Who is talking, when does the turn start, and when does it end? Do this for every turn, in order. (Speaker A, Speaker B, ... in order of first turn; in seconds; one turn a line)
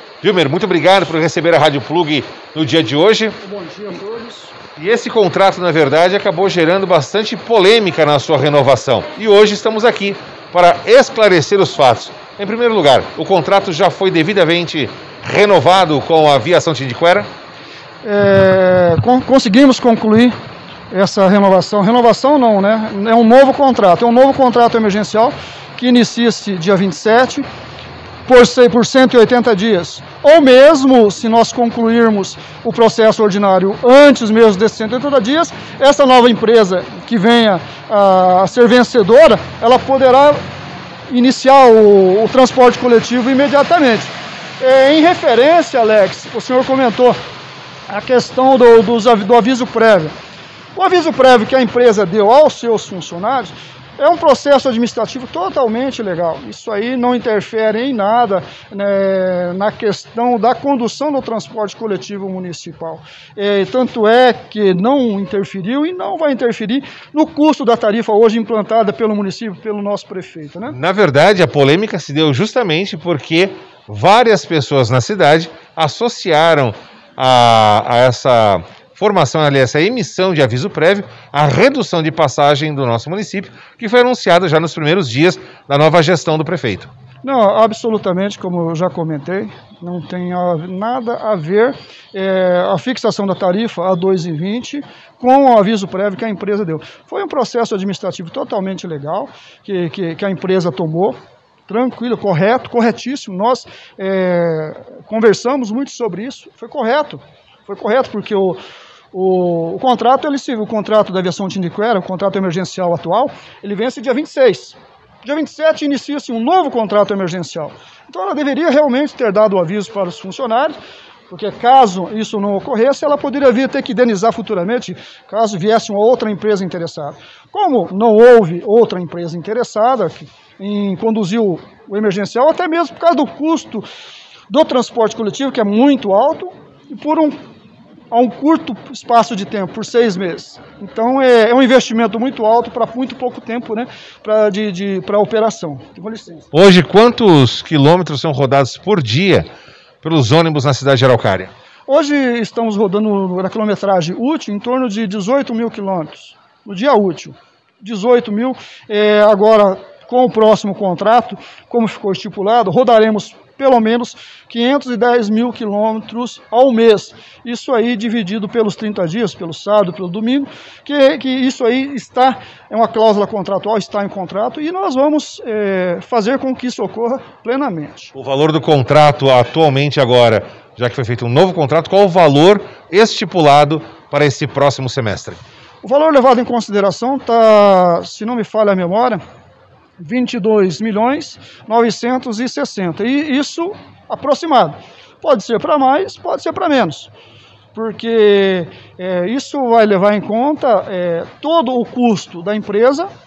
Speaker A: 0.2-3.4
Speaker B: 3.4-4.5
Speaker A: 4.8-17.3
Speaker B: 18.0-20.3
Speaker B: 20.9-27.4
Speaker B: 28.2-40.4
Speaker B: 41.1-47.2
Speaker B: 47.9-50.1
Speaker B: 50.7-70.8
Speaker A: 70.7-86.9
Speaker B: 87.2-108.6
Speaker B: 109.1-120.8
Speaker B: 121.3-133.8
Speaker B: 134.5-137.3
Speaker B: 138.1-146.5
Speaker A: 146.5-149.5
Speaker A: 150.0-151.5
Speaker B: 151.9-178.1
Speaker A: 178.1-185.4
Speaker B: 185.8-189.2
Speaker B: 190.0-197.1
Speaker B: 197.7-203.1